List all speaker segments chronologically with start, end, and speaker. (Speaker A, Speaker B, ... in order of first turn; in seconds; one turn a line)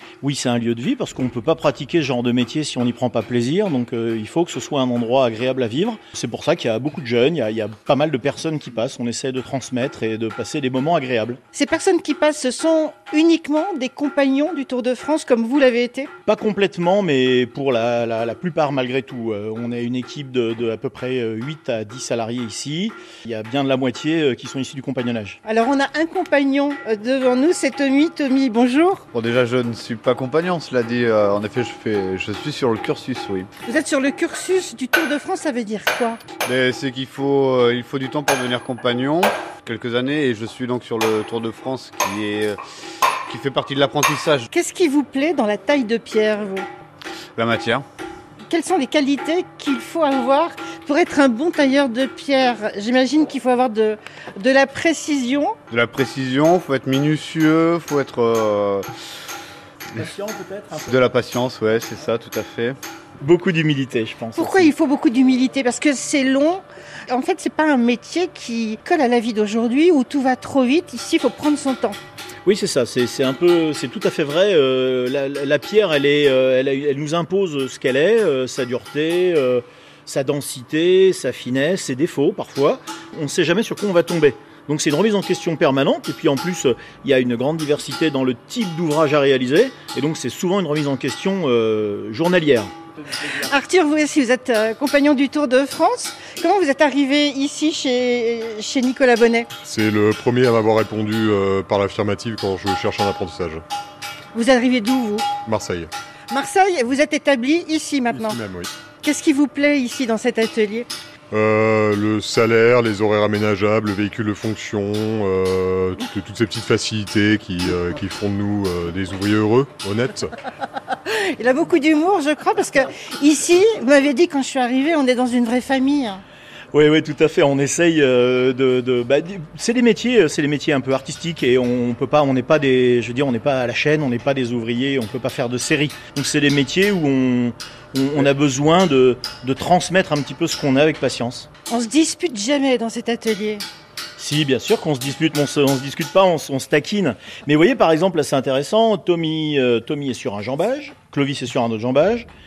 Speaker A: 0.2-11.4
Speaker B: 11.5-16.1
Speaker A: 16.2-25.4
Speaker B: 25.4-29.0
Speaker C: 29.1-33.5
Speaker B: 33.6-36.2
Speaker C: 36.4-42.6
Speaker C: 43.3-44.5
Speaker B: 44.5-46.7
Speaker C: 47.3-47.8
Speaker B: 48.5-55.6
Speaker C: 55.7-58.9
Speaker A: 59.9-61.0
Speaker C: 60.8-62.7
Speaker A: 63.2-64.7
Speaker B: 64.3-72.0
Speaker A: 72.4-92.7
Speaker B: 93.3-99.5
Speaker D: 99.6-103.6
Speaker B: 104.3-105.3
Speaker D: 105.4-105.9
Speaker B: 106.3-108.4
Speaker D: 108.1-108.7
Speaker B: 109.0-110.9
Speaker D: 111.3-120.3
Speaker B: 121.0-126.2
Speaker A: 126.7-141.5
Speaker B: 141.7-143.6
Speaker A: 144.2-152.3